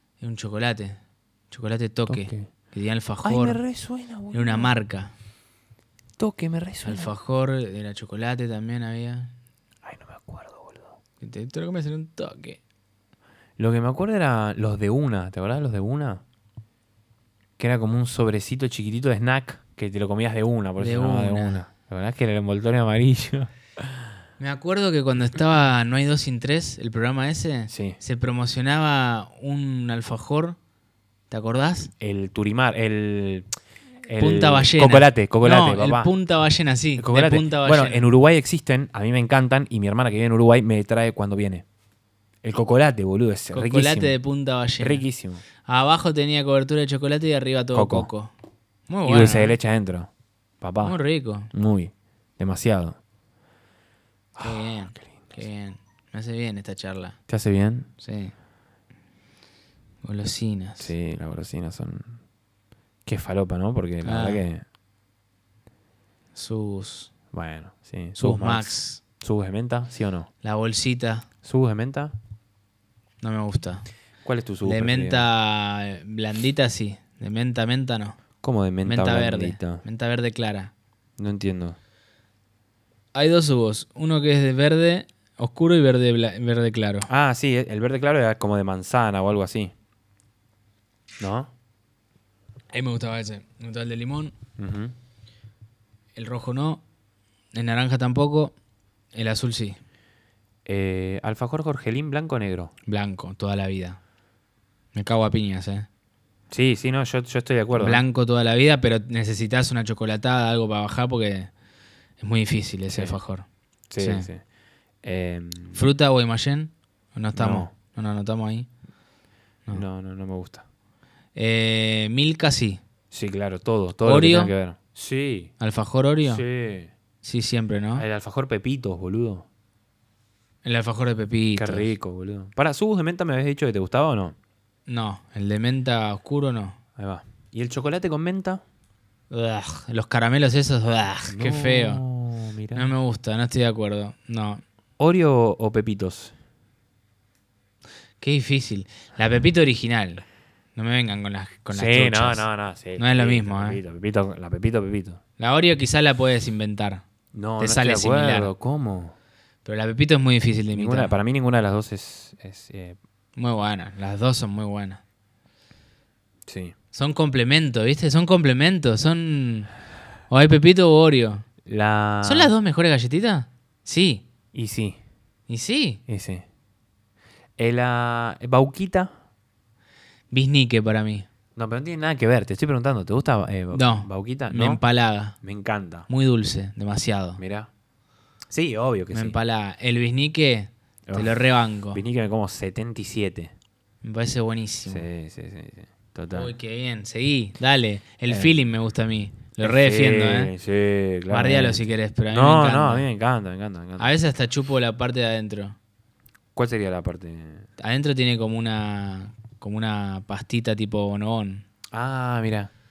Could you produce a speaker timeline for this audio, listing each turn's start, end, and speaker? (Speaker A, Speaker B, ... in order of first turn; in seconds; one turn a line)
Speaker A: 0.2-1.0
Speaker A: 1.5-3.6
Speaker B: 2.1-2.5
Speaker B: 3.2-4.8
Speaker A: 4.3-5.1
Speaker B: 6.2-7.1
Speaker A: 6.8-9.3
Speaker B: 9.8-10.9
Speaker A: 11.2-12.6
Speaker B: 13.6-16.2
Speaker B: 17.6-24.0
Speaker A: 20.8-21.6
Speaker A: 24.4-30.6
Speaker B: 27.7-28.0
Speaker A: 31.3-31.9
Speaker B: 32.0-33.5
Speaker B: 34.0-36.1
Speaker A: 34.2-38.0
Speaker B: 37.0-41.6
Speaker B: 42.4-44.1
Speaker A: 43.5-45.0
Speaker B: 44.8-45.4
Speaker A: 45.6-48.3
Speaker B: 47.7-48.1
Speaker A: 48.9-49.5
Speaker B: 49.0-51.0
Speaker A: 50.8-51.5
Speaker B: 51.5-53.0
Speaker B: 54.3-55.4
Speaker A: 54.4-57.2
Speaker B: 57.3-57.9
Speaker A: 58.0-58.3
Speaker A: 60.0-60.9
Speaker B: 60.8-62.2
Speaker B: 63.0-64.6
Speaker A: 64.0-64.4
Speaker A: 66.3-67.1
Speaker B: 67.3-70.3
Speaker A: 68.2-69.0
Speaker A: 70.4-71.3
Speaker B: 71.4-72.1
Speaker A: 73.2-73.9
Speaker B: 74.2-75.3
Speaker A: 74.6-78.2
Speaker B: 78.4-79.8
Speaker A: 78.8-80.7
Speaker B: 81.2-81.8
Speaker A: 83.1-87.1
Speaker B: 87.1-89.7
Speaker B: 91.2-91.5
Speaker A: 92.7-94.3
Speaker B: 94.6-94.9
Speaker A: 96.1-96.8
Speaker A: 97.5-98.5
Speaker A: 99.1-99.8
Speaker B: 100.7-102.7
Speaker A: 102.9-104.0
Speaker A: 104.9-105.9
Speaker B: 106.5-108.0
Speaker A: 107.7-111.5
Speaker A: 112.2-113.5
Speaker B: 112.9-113.2
Speaker B: 113.9-114.4
Speaker A: 114.0-114.3
Speaker B: 115.0-115.9
Speaker A: 115.7-118.7
Speaker B: 117.3-117.7
Speaker B: 119.7-120.6
Speaker A: 121.3-122.8
Speaker B: 123.1-125.5
Speaker A: 124.0-124.5
Speaker A: 125.6-126.4
Speaker B: 126.2-126.9
Speaker A: 127.2-128.0
Speaker B: 127.9-129.4
Speaker A: 130.6-131.9
Speaker B: 131.5-134.3
Speaker A: 134.9-136.8
Speaker B: 137.0-138.6
Speaker A: 139.3-142.0
Speaker B: 141.3-142.9
Speaker A: 142.7-144.6
Speaker B: 145.0-146.3
Speaker A: 148.2-150.2
Speaker A: 150.8-152.4
Speaker B: 151.7-155.2
Speaker A: 153.0-153.8
Speaker A: 155.4-157.0
Speaker B: 157.3-159.1
Speaker A: 157.6-158.5
Speaker A: 159.6-161.1
Speaker B: 160.7-163.0
Speaker A: 163.3-165.0
Speaker B: 166.4-166.7
Speaker A: 166.9-169.7
Speaker A: 170.3-171.4
Speaker B: 171.6-172.5
Speaker A: 172.2-174.2
Speaker B: 174.5-175.0
Speaker A: 175.5-176.0
Speaker B: 176.1-176.4
Speaker B: 177.6-179.1
Speaker A: 180.3-181.3
Speaker B: 181.6-184.8
Speaker A: 183.7-185.4
Speaker B: 185.4-186.1
Speaker A: 186.1-187.4
Speaker B: 187.4-187.7
Speaker B: 188.5-189.4
Speaker A: 189.1-192.0
Speaker B: 191.1-191.4
Speaker B: 191.9-193.5
Speaker A: 194.0-195.1
Speaker B: 194.9-196.5
Speaker A: 196.3-200.5
Speaker B: 198.3-198.5
Speaker B: 199.6-204.1
Speaker A: 201.3-203.1
Speaker A: 204.0-205.8
Speaker B: 206.5-207.7
Speaker A: 207.8-211.7
Speaker B: 211.9-212.7